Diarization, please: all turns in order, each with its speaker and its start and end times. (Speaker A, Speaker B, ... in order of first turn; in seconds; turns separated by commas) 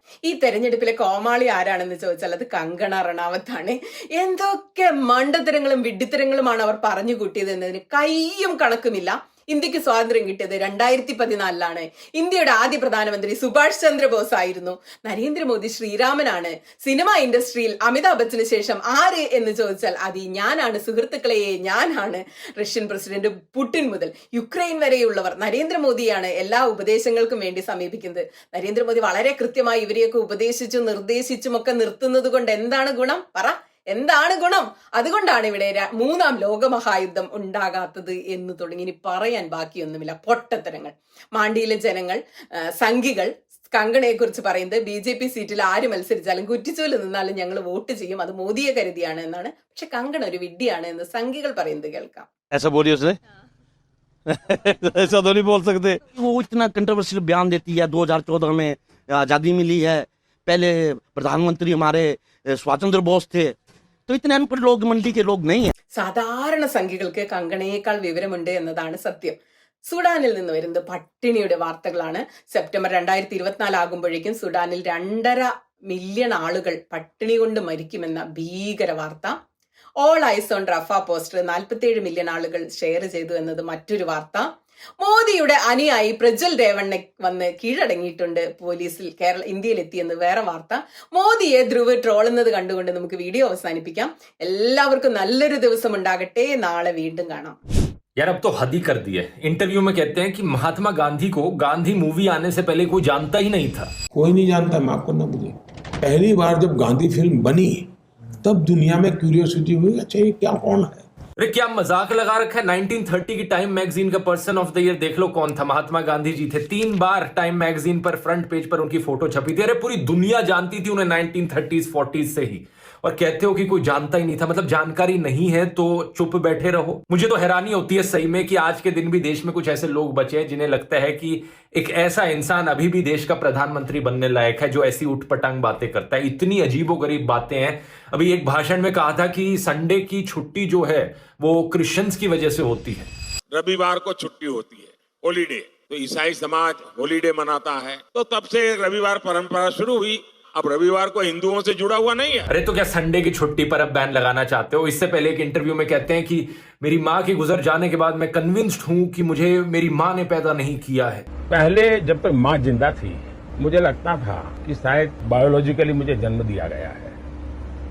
Speaker A: 0.2-42.2, Speaker A: 42.8-52.3, Speaker B: 52.5-53.2, Speaker B: 54.3-63.5, Speaker B: 64.1-65.7, Speaker A: 66.0-69.3, Speaker A: 69.9-79.3, Speaker A: 80.0-84.5, Speaker A: 85.0-97.6, Speaker C: 98.2-103.9, Speaker D: 104.2-107.8, Speaker D: 108.4-111.0, Speaker C: 111.4-143.1, Speaker E: 143.5-152.5, Speaker C: 152.5-161.2, Speaker F: 161.5-167.2